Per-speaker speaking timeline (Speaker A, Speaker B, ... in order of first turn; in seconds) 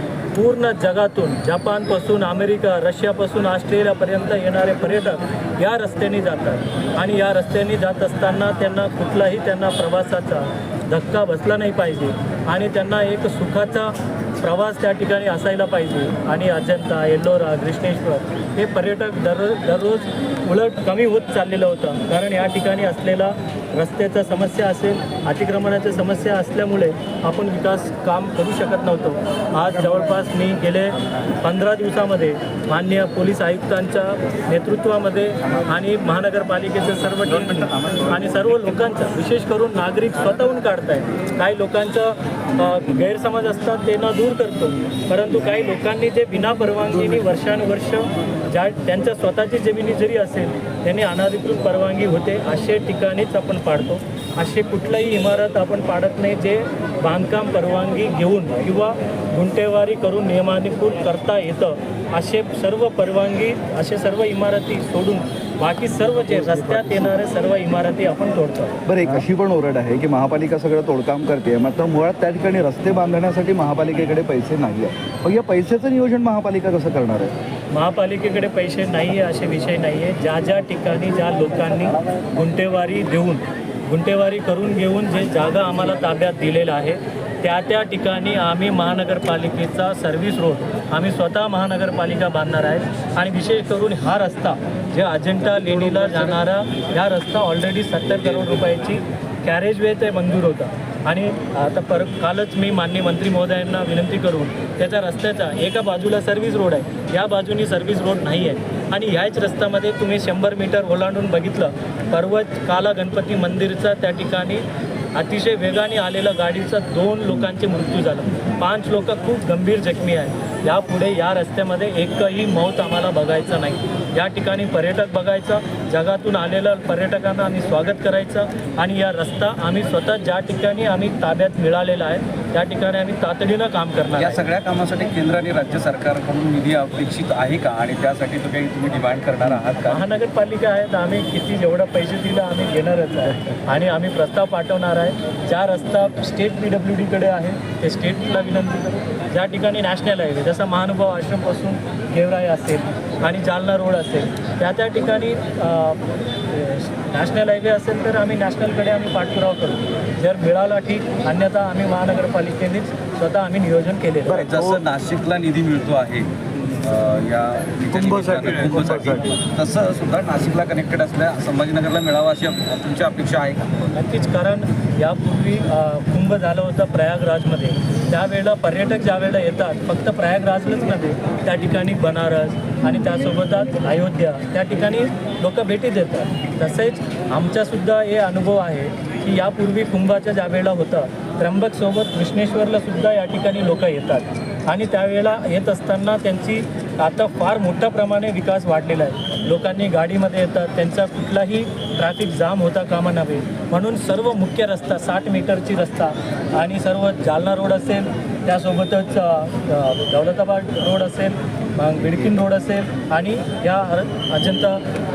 Speaker A: 0.3-68.8, 77.7-114.6, 115.2-134.4, 139.9-164.5, 173.9-214.8
Speaker B: 68.9-77.3, 164.3-164.8, 167.9-169.4
Speaker C: 134.2-140.0, 164.3-166.3, 166.8-173.9